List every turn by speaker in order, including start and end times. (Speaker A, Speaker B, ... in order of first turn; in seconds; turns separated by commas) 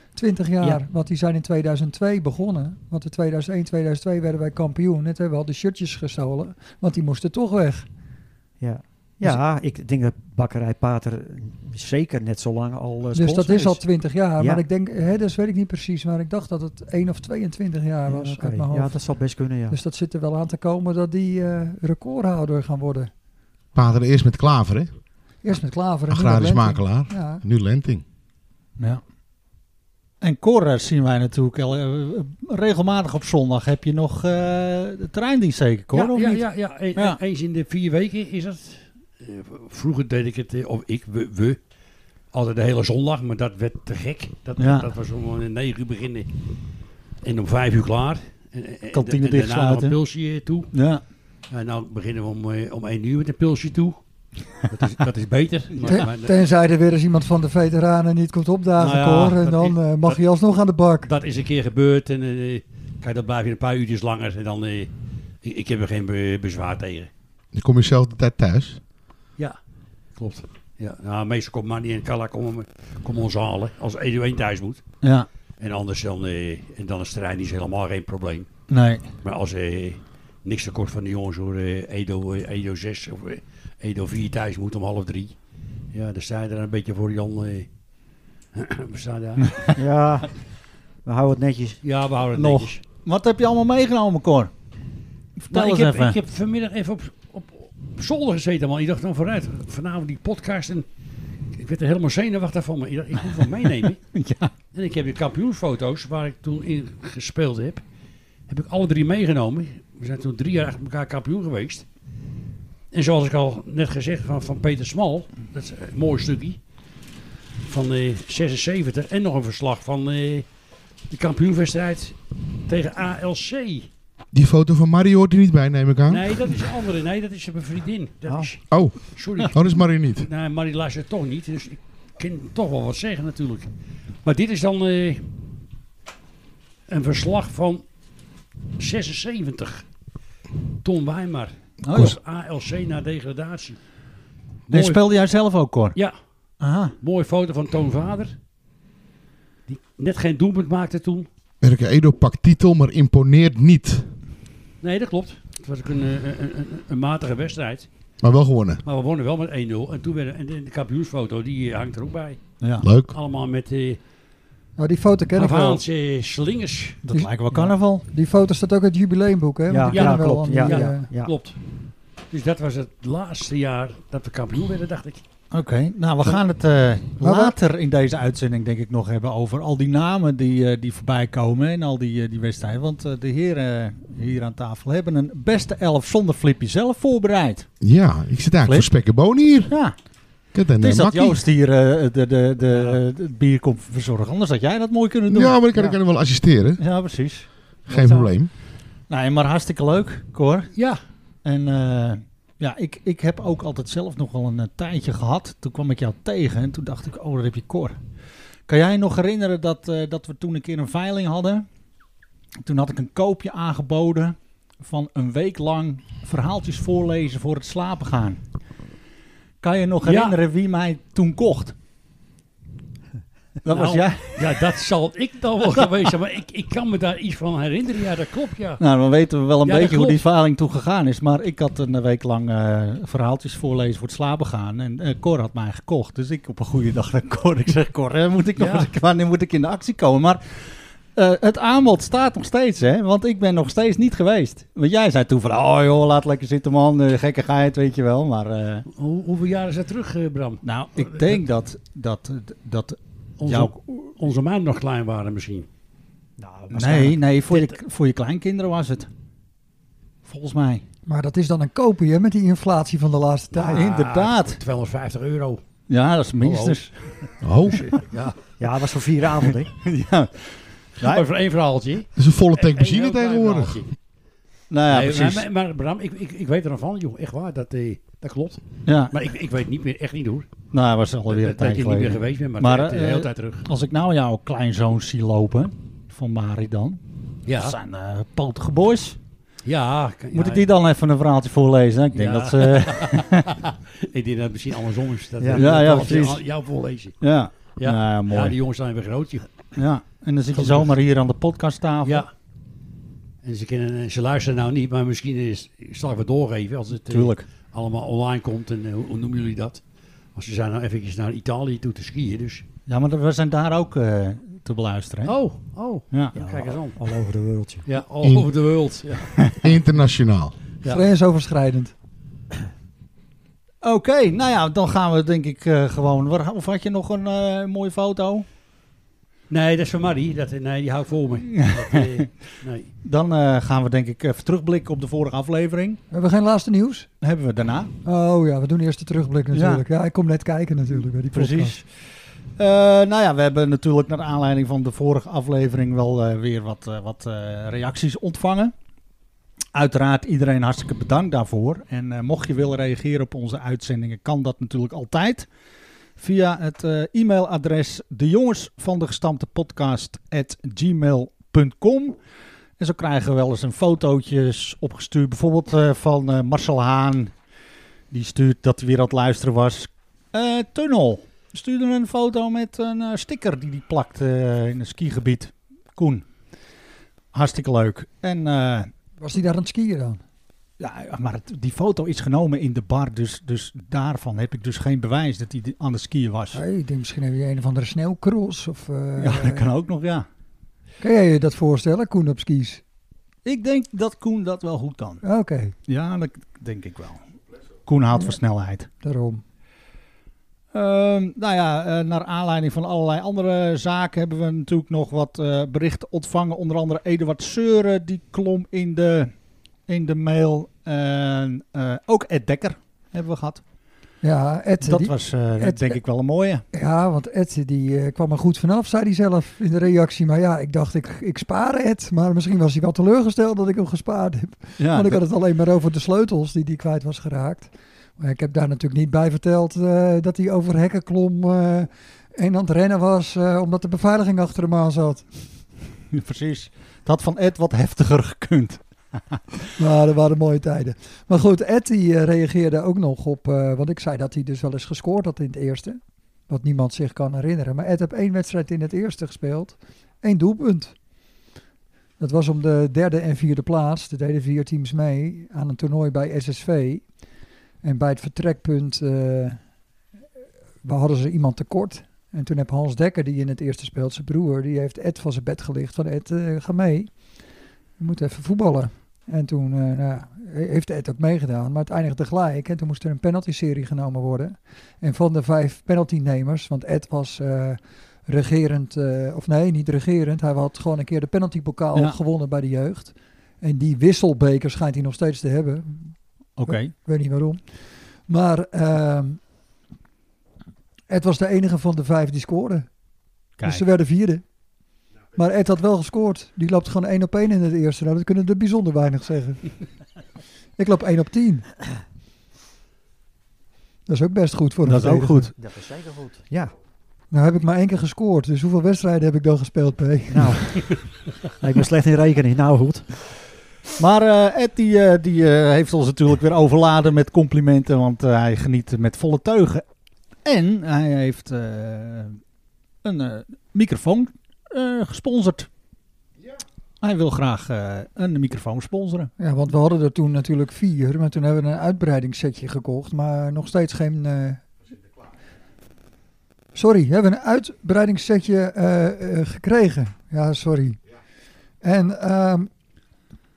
Speaker A: 0.1-7.9, Speaker B: 8.6-13.8, Speaker A: 13.1-19.0, Speaker B: 14.4-14.6, Speaker B: 18.1-19.8, Speaker A: 19.7-23.1, Speaker C: 23.8-24.9, Speaker A: 25.4-27.4, Speaker C: 26.1-28.0, Speaker D: 30.2-36.4, Speaker E: 35.9-41.6, Speaker E: 42.3-46.3, Speaker D: 44.6-44.9, Speaker E: 47.2-50.7, Speaker D: 48.9-50.0, Speaker D: 50.7-51.0, Speaker E: 51.5-54.0, Speaker E: 54.6-56.4, Speaker D: 55.7-56.1, Speaker A: 55.8-61.1, Speaker E: 58.8-60.2, Speaker E: 61.0-64.9, Speaker E: 65.4-67.1, Speaker C: 67.5-68.8, Speaker E: 70.2-74.8, Speaker D: 75.0-75.3, Speaker E: 75.6-78.5, Speaker D: 78.7-79.1, Speaker E: 79.2-85.3, Speaker E: 85.9-87.7, Speaker E: 88.5-89.7, Speaker B: 89.8-90.3, Speaker B: 91.0-91.8, Speaker E: 91.8-92.8, Speaker D: 92.3-94.5, Speaker D: 95.4-96.2, Speaker E: 95.5-100.9, Speaker E: 101.5-104.0, Speaker D: 103.3-104.5, Speaker E: 104.7-107.8, Speaker E: 108.5-111.9, Speaker E: 112.9-116.6, Speaker E: 117.7-120.5, Speaker E: 121.1-123.9, Speaker C: 124.3-126.5, Speaker E: 126.1-133.7, Speaker C: 128.7-130.3, Speaker E: 134.2-135.3, Speaker E: 136.9-137.8, Speaker E: 138.8-139.8, Speaker E: 140.8-143.8, Speaker D: 141.8-142.2, Speaker E: 144.7-145.0, Speaker D: 144.7-146.0, Speaker D: 146.6-146.9, Speaker E: 147.0-148.4, Speaker E: 149.7-151.3, Speaker C: 151.6-154.1, Speaker E: 154.8-157.9, Speaker C: 158.2-158.8, Speaker E: 158.8-162.4, Speaker D: 162.6-162.9, Speaker C: 162.8-163.2, Speaker E: 163.1-164.0, Speaker A: 164.8-165.8, Speaker E: 165.3-167.0, Speaker D: 167.1-168.1, Speaker A: 167.1-171.1, Speaker B: 169.7-171.3, Speaker E: 169.9-171.6, Speaker E: 172.3-175.2, Speaker D: 175.5-187.7, Speaker A: 177.2-177.6, Speaker C: 187.8-189.8, Speaker D: 188.7-188.9, Speaker D: 189.7-190.0, Speaker C: 190.5-191.4, Speaker D: 190.8-196.0, Speaker E: 192.7-193.0, Speaker C: 195.3-196.8, Speaker D: 196.8-198.3, Speaker C: 197.9-198.5, Speaker D: 199.1-200.7, Speaker E: 200.8-201.0, Speaker D: 201.4-208.0, Speaker D: 208.7-211.7, Speaker D: 212.6-218.4, Speaker D: 219.6-221.8, Speaker E: 220.0-220.4, Speaker D: 223.6-224.7, Speaker E: 223.7-228.8, Speaker D: 228.8-248.9, Speaker E: 229.7-230.2, Speaker E: 238.6-238.9, Speaker E: 248.9-251.4, Speaker D: 250.6-253.7, Speaker E: 253.4-255.7, Speaker B: 256.4-257.2, Speaker D: 256.7-259.1, Speaker D: 260.2-260.9, Speaker A: 261.1-263.9, Speaker E: 263.6-265.6, Speaker D: 263.6-264.6, Speaker D: 265.9-266.9, Speaker E: 266.4-268.4, Speaker C: 267.4-267.9, Speaker B: 268.6-269.7, Speaker D: 269.8-271.2, Speaker E: 271.0-273.9, Speaker C: 272.2-273.9, Speaker D: 274.7-275.5, Speaker E: 274.9-280.5, Speaker D: 278.9-279.1, Speaker D: 280.7-289.2, Speaker E: 281.3-283.6, Speaker E: 287.5-287.8, Speaker E: 289.6-290.7, Speaker D: 290.3-293.5, Speaker E: 292.1-297.2, Speaker B: 295.4-296.2, Speaker D: 295.5-296.4, Speaker D: 297.2-298.6, Speaker E: 297.7-299.6, Speaker D: 299.8-302.2, Speaker E: 300.5-300.9, Speaker E: 303.4-309.8, Speaker D: 307.1-307.5, Speaker E: 310.4-312.7, Speaker D: 312.9-315.3, Speaker E: 315.2-317.0, Speaker B: 316.4-317.9, Speaker E: 317.9-319.6, Speaker C: 318.2-318.5, Speaker C: 319.6-320.6, Speaker A: 320.9-321.9, Speaker D: 323.8-328.5, Speaker E: 329.5-332.9, Speaker D: 331.5-332.3, Speaker D: 333.0-336.0, Speaker A: 336.1-337.1, Speaker D: 337.2-337.9, Speaker A: 338.0-341.8, Speaker D: 339.5-339.9, Speaker D: 341.3-341.9, Speaker D: 342.6-348.7, Speaker D: 349.7-355.5, Speaker D: 356.2-362.2, Speaker D: 362.8-367.3, Speaker D: 368.1-376.3, Speaker D: 377.3-378.9, Speaker A: 379.2-380.2, Speaker D: 380.8-386.6, Speaker A: 386.5-389.7, Speaker D: 389.2-390.3, Speaker A: 391.0-392.8, Speaker D: 393.4-395.2, Speaker A: 395.2-395.8, Speaker D: 395.9-397.3, Speaker D: 397.9-398.9, Speaker A: 399.0-399.4, Speaker D: 400.7-409.3, Speaker D: 409.9-413.6, Speaker A: 414.2-416.0, Speaker D: 414.8-416.6, Speaker A: 416.7-435.3, Speaker D: 424.8-425.2, Speaker D: 436.1-439.4, Speaker A: 439.8-450.9, Speaker A: 452.2-457.1, Speaker A: 457.8-459.6, Speaker A: 460.8-467.1, Speaker A: 468.0-489.4, Speaker D: 486.6-486.9, Speaker A: 491.1-492.9, Speaker D: 493.6-493.9, Speaker A: 493.6-494.4, Speaker A: 495.3-499.7, Speaker A: 500.8-501.7, Speaker A: 504.1-505.5, Speaker D: 504.9-505.5, Speaker B: 505.5-506.7, Speaker A: 507.3-511.0, Speaker B: 510.3-511.0, Speaker B: 511.6-513.1, Speaker D: 514.0-519.9, Speaker D: 520.5-522.4, Speaker D: 523.0-525.7, Speaker D: 527.0-529.3, Speaker A: 529.4-534.6, Speaker A: 536.7-541.0, Speaker A: 541.8-542.7